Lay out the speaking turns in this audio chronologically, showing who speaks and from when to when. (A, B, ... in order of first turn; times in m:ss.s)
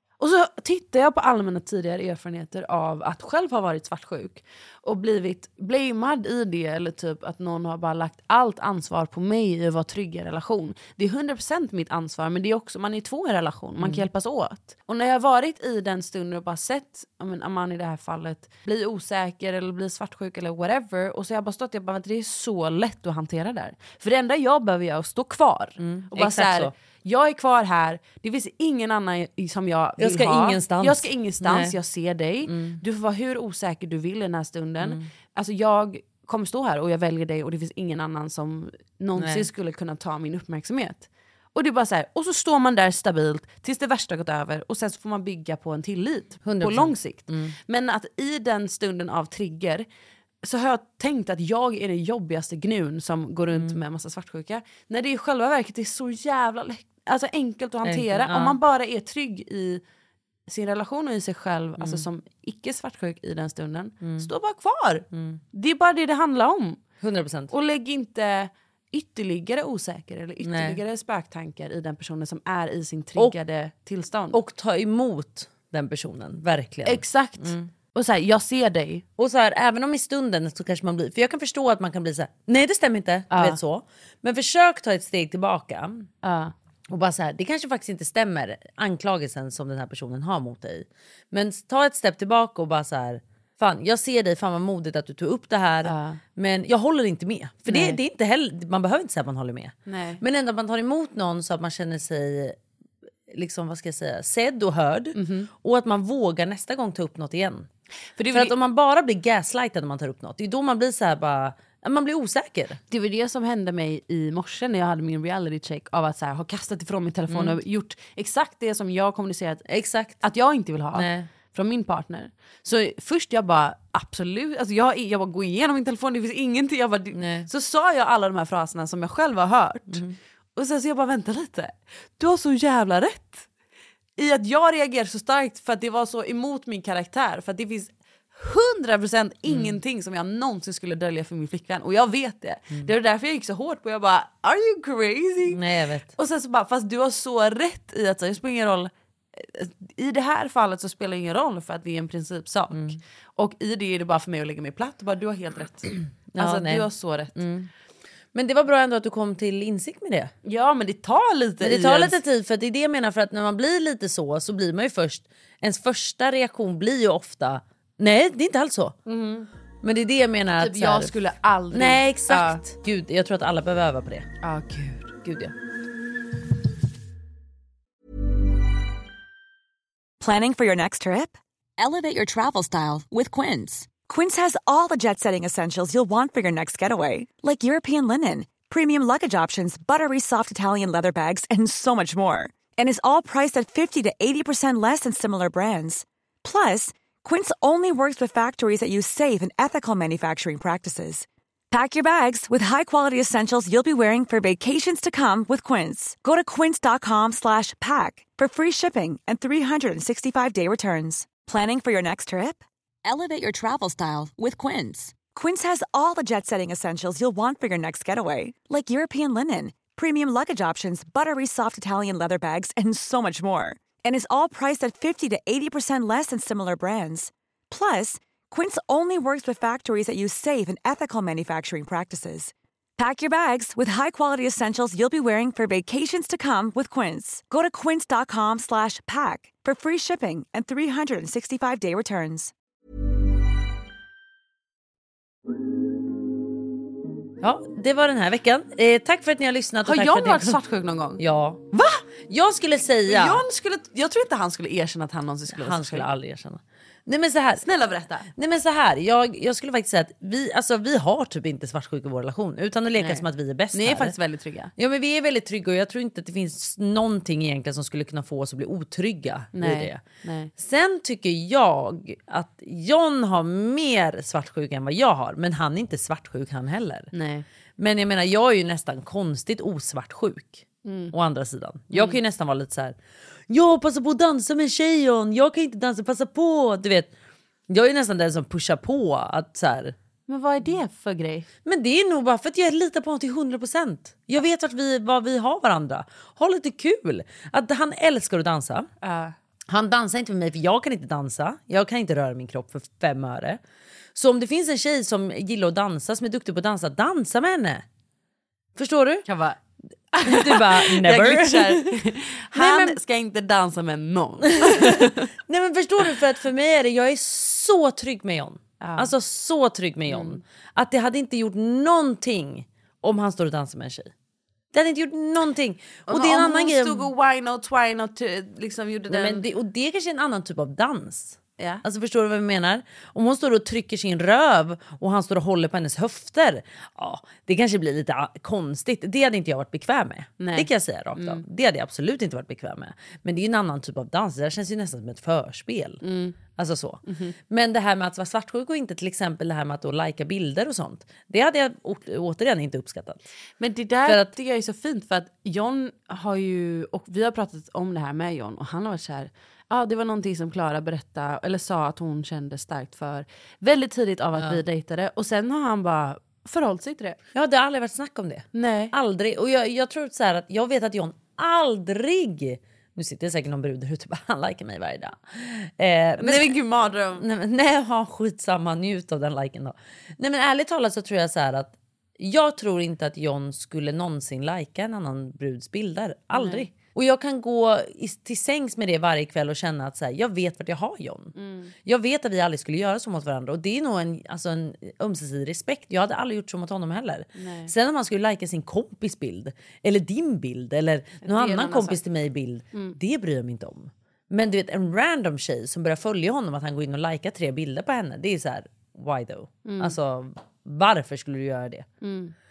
0:00.2-0:49.8 A
0:25.8-0:26.7 B
0:30.0-0:31.8 B
0:32.5-0:32.8 B
0:34.8-0:35.0 B
0:39.2-0:39.4 B
0:46.4-0:47.6 B
0:50.4-0:59.8 A
0:53.5-0:53.8 B
0:57.8-0:58.6 B
1:00.5-1:06.8 A
1:01.8-1:02.0 B
1:04.0-1:04.3 B
1:05.1-1:05.4 B
1:07.0-1:07.5 B
1:07.5-1:14.4 A
1:10.4-1:10.8 B
1:14.3-1:17.7 B
1:16.8-1:19.0 A
1:19.2-1:26.1 B
1:23.3-1:23.6 A
1:26.2-1:26.5 A
1:26.9-1:42.6 B
1:35.8-1:36.2 A
1:37.7-1:38.0 A
1:39.8-1:40.2 A
1:43.3-1:47.7 B
1:45.2-1:45.5 A
1:48.2-1:48.5 A
1:48.3-1:52.8 B
1:52.9-1:59.6 A
1:57.3-1:57.6 B
1:59.7-2:00.2 B
2:00.2-2:10.0 A
2:00.9-2:01.3 B
2:07.1-2:07.5 B
2:09.9-2:10.2 B
2:10.6-2:13.5 A
2:14.2-2:25.6 A
2:19.5-2:19.8 B
2:25.4-2:26.1 B
2:26.2-2:37.4 A
2:32.7-2:33.0 B
2:36.3-2:37.7 B
2:38.3-2:40.3 B
2:40.4-2:42.2 A
2:41.6-2:49.0 B
2:49.1-2:49.5 A
2:49.8-2:51.1 B
2:50.6-2:52.6 A
2:51.7-2:54.3 B
2:54.4-2:55.2 A
2:55.2-2:55.5 B
3:00.2-4:02.5 C
4:07.4-4:10.6 B
4:09.8-4:11.2 A
4:11.2-4:11.6 B
4:11.7-4:12.0 A
4:12.3-4:13.4 B
4:13.0-4:16.1 A
4:15.5-4:17.6 B
4:17.6-4:18.3 A
4:18.3-4:24.2 B
4:23.0-4:24.7 A
4:24.8-4:30.0 B
4:29.5-4:30.5 A
4:30.6-4:37.1 B
4:37.1-4:37.4 A
4:37.8-4:43.0 B
4:40.8-4:41.1 A
4:41.9-4:42.2 A
4:43.5-4:47.1 B
4:47.7-4:50.0 B
4:50.3-4:51.5 A
4:51.6-4:58.9 B
4:59.0-4:59.3 A
4:59.7-5:03.6 B
5:04.1-5:07.8 B
5:08.8-5:09.2 B
5:09.2-5:09.6 A
5:10.1-5:15.3 A
5:10.2-5:11.9 B
5:12.5-5:13.0 B
5:14.6-5:14.9 B
5:15.5-5:24.1 B
5:18.8-5:19.1 A
5:20.1-5:20.4 A
5:24.7-5:27.1 B
5:26.1-5:29.4 A
5:29.1-5:46.0 B
5:31.6-5:31.8 A
5:40.4-5:41.4 A
5:46.0-5:46.4 A
5:46.6-5:53.2 B
5:47.0-5:47.3 A
5:53.6-6:07.2 A
5:54.0-5:54.3 B
6:04.3-6:04.6 B
6:07.3-6:16.6 B
6:08.5-6:08.9 A
6:16.2-6:17.2 A
6:17.1-6:31.3 B
6:26.3-6:26.6 A
6:31.4-6:31.7 A
6:31.8-6:51.8 B
6:37.3-6:37.7 A
6:41.2-6:42.0 A
6:49.6-6:50.0 A
6:52.0-6:52.3 A